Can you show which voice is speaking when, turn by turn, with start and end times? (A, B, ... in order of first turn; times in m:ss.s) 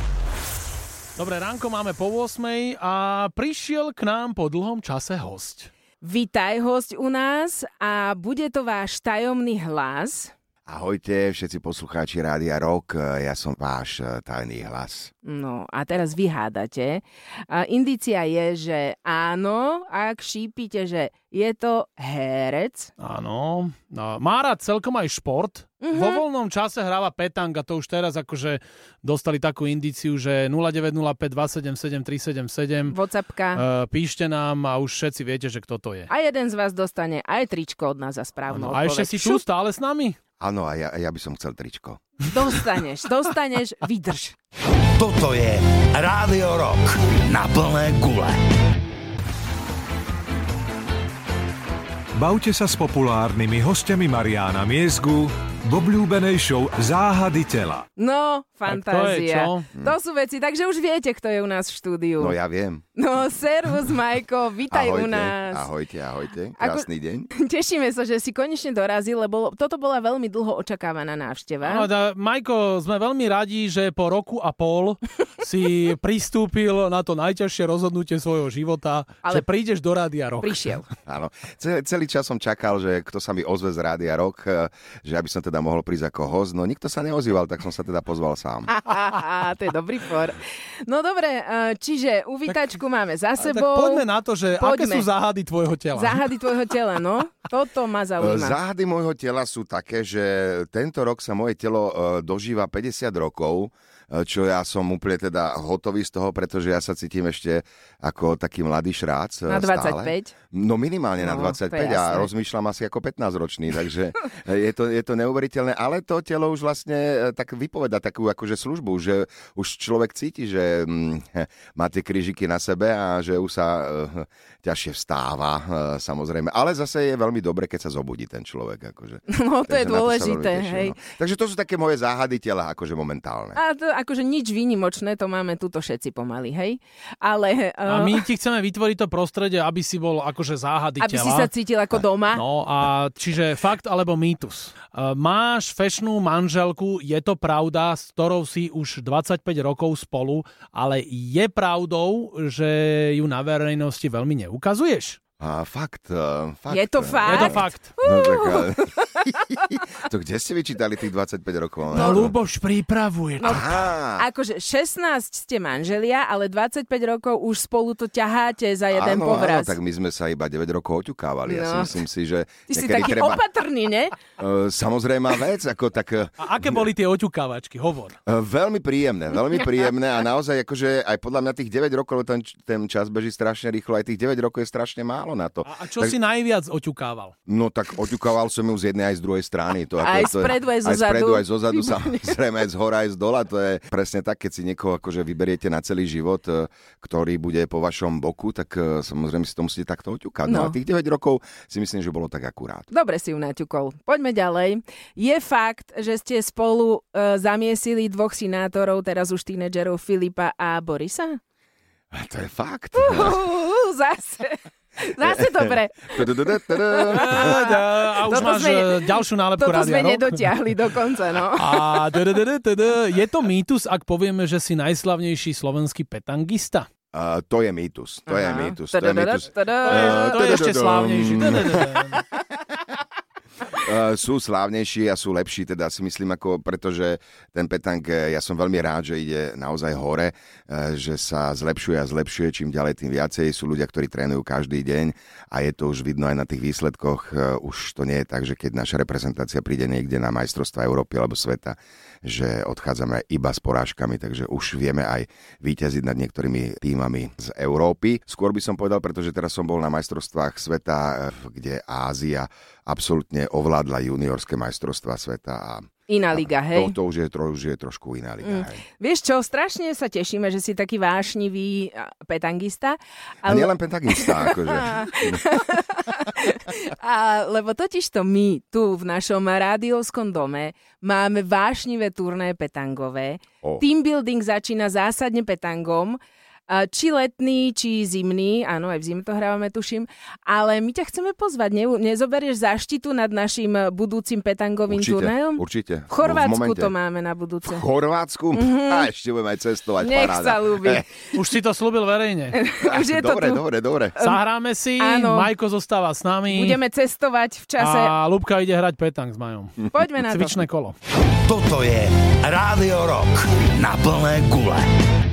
0:01.2-0:05.7 A
0:06.0-0:10.3 B
0:10.7-0:15.1 C
0:15.2-0:22.9 B
0:23.0-0:33.0 A
0:25.8-0:26.2 B
0:32.9-0:33.6 B
0:33.6-0:36.1 A
0:36.1-0:39.4 B
0:38.5-0:40.2 A
0:40.4-0:42.0 C
0:42.3-0:44.4 B
0:45.0-0:48.4 D
0:52.2-0:57.9 E
0:58.0-1:02.4 B
0:58.7-0:59.7 A
1:02.2-1:02.8 C
1:03.0-1:05.7 B
1:04.7-1:07.3 C
1:06.6-1:11.9 B
1:11.6-1:20.7 A
1:20.4-1:20.9 B
1:21.1-1:28.7 C
1:28.7-1:34.1 B
1:33.4-1:36.2 A
1:34.6-1:35.1 B
1:35.9-1:38.6 B
1:38.2-2:13.6 C
1:49.4-1:50.3 B
1:51.2-1:52.3 B
2:09.3-2:11.0 B
2:13.5-2:18.2 B
2:17.8-2:21.5 A
2:21.0-2:22.4 B
2:22.3-2:35.2 A
2:35.4-2:42.3 C
2:36.7-2:38.8 B
2:37.2-2:37.9 A
2:41.9-2:42.3 B
2:41.9-2:43.9 A
2:43.4-2:43.6 B
2:43.4-2:44.2 C
2:44.2-2:49.8 B
2:48.9-2:53.4 C
2:51.5-2:52.0 B
2:52.7-2:54.2 B
2:54.4-2:56.8 C
2:56.4-2:58.2 A
2:58.3-3:06.2 C
3:05.6-3:07.3 A
3:07.5-3:22.9 C
3:10.0-3:12.4 B
3:20.4-3:20.8 B
3:22.9-3:31.4 B
3:32.1-3:33.4 C
3:33.0-3:42.0 B
3:35.2-3:37.6 C
3:37.1-3:40.4 A
3:41.6-3:46.9 A
3:47.1-3:51.9 C
3:48.3-3:50.4 B
3:49.8-3:52.2 A
3:53.7-4:28.8 C
4:26.1-4:26.9 B
4:28.4-4:46.2 B
4:33.4-4:35.4 C
4:46.7-4:57.8 B
4:54.9-4:56.9 C
4:57.6-5:01.1 C
4:58.5-4:59.1 B
5:00.0-5:01.1 B
5:01.3-5:02.6 A
5:02.5-5:03.6 B
5:02.8-5:04.2 C
5:04.2-5:04.4 B
5:04.2-5:06.8 A
5:05.0-5:05.5 B
5:06.5-5:08.1 B
5:07.8-5:11.0 A
5:09.9-5:10.6 B
5:11.4-5:14.9 D